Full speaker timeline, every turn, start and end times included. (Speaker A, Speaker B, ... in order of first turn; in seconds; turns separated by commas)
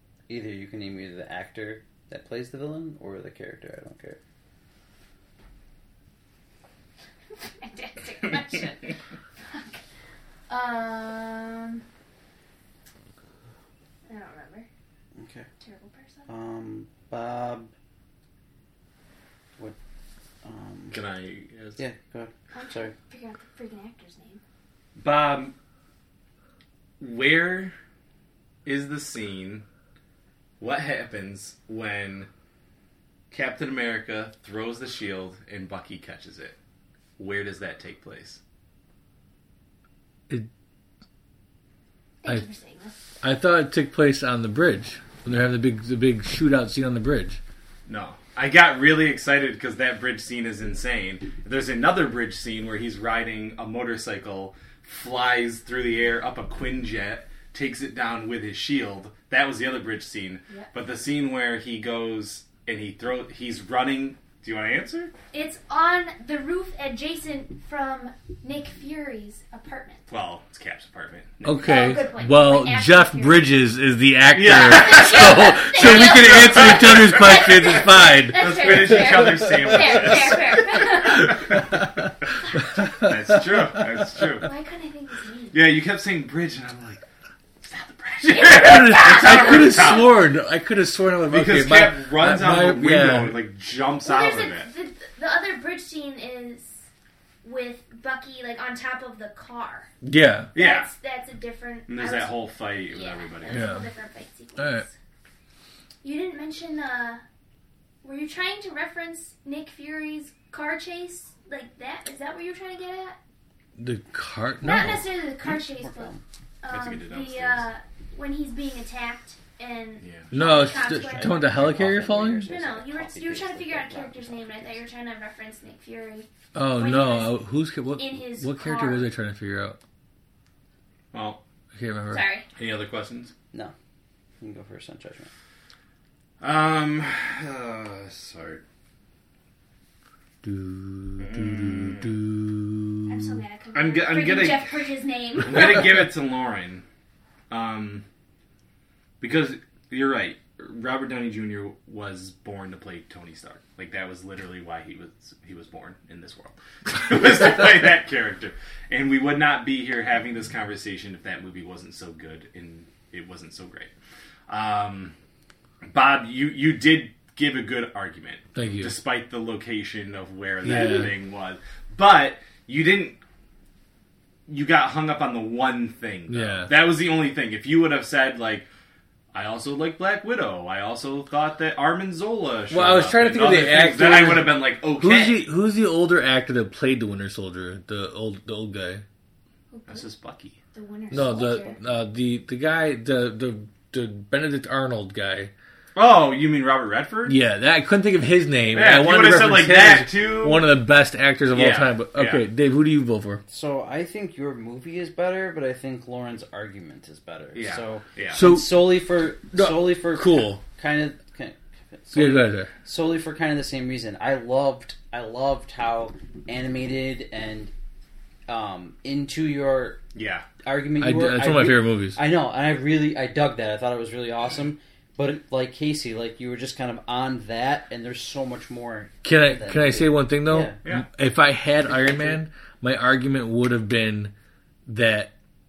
Speaker A: 0.3-4.2, Speaker B: 7.3-9.8, Speaker B: 10.5-11.8, Speaker B: 14.1-14.7, Speaker A: 15.1-15.5, Speaker B: 15.6-16.3, Speaker A: 16.3-17.7, Speaker A: 20.4-21.0, Speaker C: 20.9-21.8, Speaker A: 21.8-22.9, Speaker B: 22.5-24.4, Speaker C: 25.0-25.5, Speaker C: 27.0-27.7, Speaker C: 28.6-29.6, Speaker C: 30.6-32.3, Speaker C: 33.3-36.6, Speaker C: 37.2-38.4, Speaker B: 42.2-43.0, Speaker D: 43.2-47.4, Speaker C: 47.9-65.1, Speaker B: 65.3-70.0, Speaker C: 70.1-71.8, Speaker D: 71.4-83.9, Speaker B: 71.5-73.5, Speaker C: 74.3-81.8, Speaker B: 74.6-81.7, Speaker C: 82.8-84.5, Speaker B: 84.4-85.7, Speaker C: 85.5-87.0, Speaker C: 87.6-90.1, Speaker B: 88.3-90.0, Speaker D: 88.5-93.4, Speaker C: 91.3-94.7, Speaker B: 94.0-96.8, Speaker B: 97.4-99.9, Speaker D: 100.0-100.5, Speaker C: 100.5-100.9, Speaker B: 100.5-102.4, Speaker C: 101.9-103.7, Speaker B: 102.9-104.9, Speaker D: 103.5-103.9, Speaker D: 104.6-104.8, Speaker B: 106.0-107.2, Speaker B: 108.0-113.2, Speaker D: 113.8-115.1, Speaker B: 114.6-121.6, Speaker A: 115.7-116.2, Speaker C: 116.7-117.7, Speaker C: 120.0-120.3, Speaker D: 120.3-122.5, Speaker A: 120.8-124.8, Speaker B: 122.4-129.1, Speaker D: 126.5-129.8, Speaker C: 131.1-131.4, Speaker D: 131.7-132.2, Speaker B: 132.1-132.4, Speaker C: 132.6-133.3, Speaker A: 134.4-135.3, Speaker C: 136.4-138.6, Speaker D: 140.4-143.4, Speaker C: 141.2-142.2, Speaker B: 143.1-146.1, Speaker C: 143.7-144.8, Speaker C: 145.4-146.8, Speaker C: 147.5-148.0, Speaker C: 149.2-163.9, Speaker C: 164.5-165.1, Speaker C: 165.8-173.2, Speaker D: 168.6-168.9, Speaker D: 170.6-171.1, Speaker B: 170.7-171.1, Speaker C: 174.5-178.7, Speaker D: 176.3-176.7, Speaker C: 179.3-185.4, Speaker D: 182.7-189.0, Speaker B: 189.7-190.1, Speaker C: 189.9-190.6, Speaker B: 190.7-191.8, Speaker D: 191.1-195.5, Speaker C: 195.9-197.4, Speaker D: 197.3-203.4, Speaker C: 198.7-200.7, Speaker C: 201.5-202.4, Speaker A: 203.5-217.7, Speaker C: 207.6-208.4, Speaker D: 208.3-210.6, Speaker D: 212.1-212.7, Speaker A: 218.5-220.0, Speaker C: 220.1-220.4, Speaker A: 220.6-230.8, Speaker D: 221.0-222.2, Speaker D: 229.2-234.3, Speaker A: 231.9-232.4, Speaker D: 234.8-235.3